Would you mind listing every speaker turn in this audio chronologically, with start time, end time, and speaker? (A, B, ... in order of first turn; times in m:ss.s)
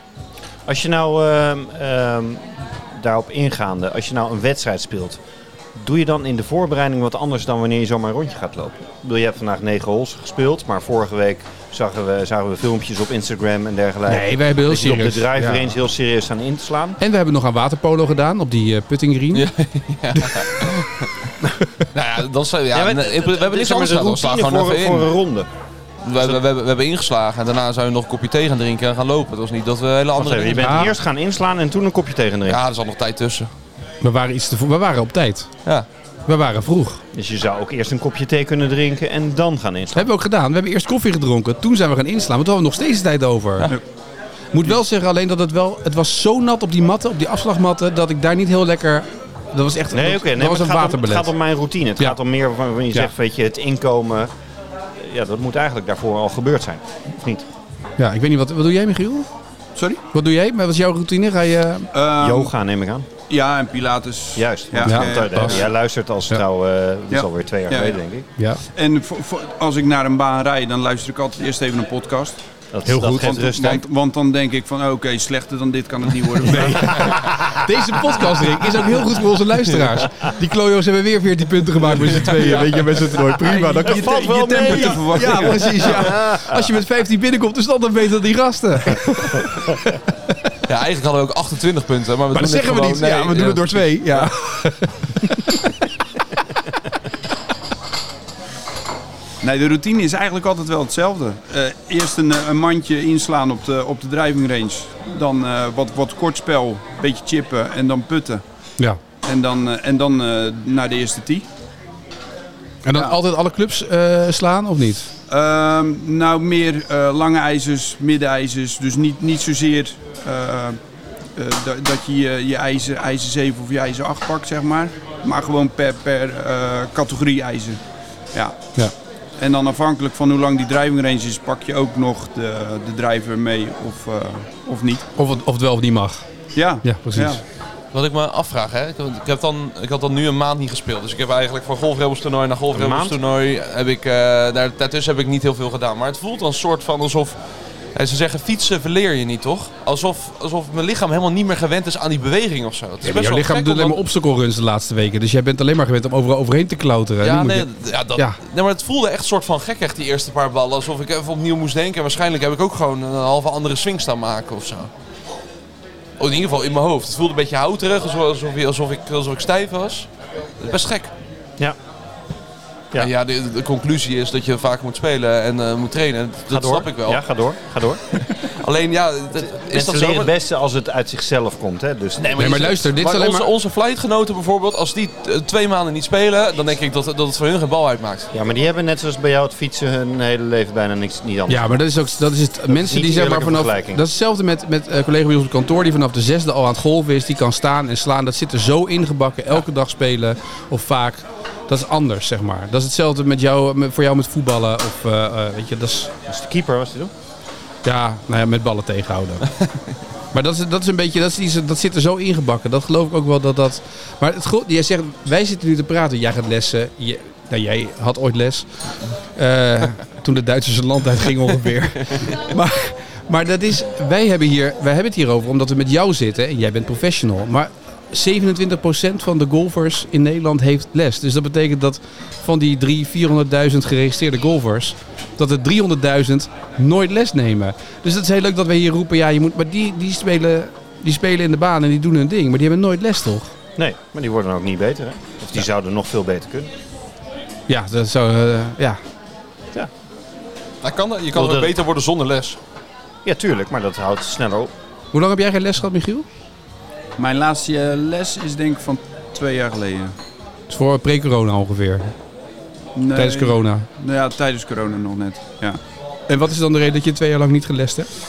0:00.7-0:05.2 A
0:05.8-0:17.0 A
0:14.1-0:15.7 B
0:17.0-0:19.5 B
0:19.3-0:21.1 C
0:20.2-0:20.6 B
0:21.9-0:25.1 C
0:22.7-0:25.5 A
0:26.0-0:30.9 C
0:26.2-0:26.4 A
0:30.2-0:32.6 A
0:30.6-0:31.0 B
0:32.5-0:33.5 C
0:34.0-0:35.5 B
0:36.3-0:37.0 B
0:37.1-0:40.1 A
0:39.9-0:43.8 B
0:44.5-0:51.3 B
0:49.9-0:54.3 A
0:55.0-0:57.5 A
0:58.0-0:59.3 B
0:59.8-1:00.0 D
1:00.1-1:01.9 B
1:01.9-1:02.5 D
1:02.2-1:03.1 A
1:03.3-1:05.7 D
1:04.4-1:08.3 A
1:04.8-1:05.6 B
1:07.1-1:08.0 D
1:08.7-1:12.4 D
1:12.7-1:13.8 A
1:12.9-1:13.4 B
1:13.0-1:17.4 D
1:16.5-1:29.8 B
1:22.3-1:22.7 D
1:23.2-1:26.1 D
1:23.8-1:26.7 A
1:30.7-1:34.3 C
1:32.3-1:35.7 B
1:39.4-1:48.4 D
1:49.2-1:51.5 D
1:52.8-1:55.1 B
1:55.3-2:00.8 D
2:01.4-2:07.8 D
2:08.3-2:08.6 D
2:09.4-2:15.1 D
2:15.2-2:16.2 B
2:16.6-2:17.4 D
2:16.8-2:17.4 B
2:17.9-2:27.4 C
2:22.7-2:23.2 A
2:28.0-2:34.0 C
2:33.0-2:38.4 B
2:37.2-2:44.9 C
2:46.2-2:50.1 C
2:50.6-2:51.1 C
2:53.0-2:57.2 C
2:56.5-2:58.2 A
2:58.4-3:00.3 C
2:59.6-3:02.5 A
3:02.2-3:08.3 C
3:02.4-3:03.5 B
3:08.3-3:11.8 A
3:11.5-3:26.1 B
3:12.7-3:14.0 A
3:26.3-3:27.1 A
3:27.8-3:29.5 B
3:30.3-4:03.5 B
4:03.8-4:06.7 A
4:07.7-4:09.0 B
4:10.8-4:12.6 C
4:11.3-4:11.7 A
4:13.2-4:14.7 A
4:15.1-4:16.3 B
4:17.2-4:20.2 D
4:20.7-4:22.1 B
4:23.0-4:25.8 D
4:23.1-4:23.9 B
4:26.3-4:28.1 B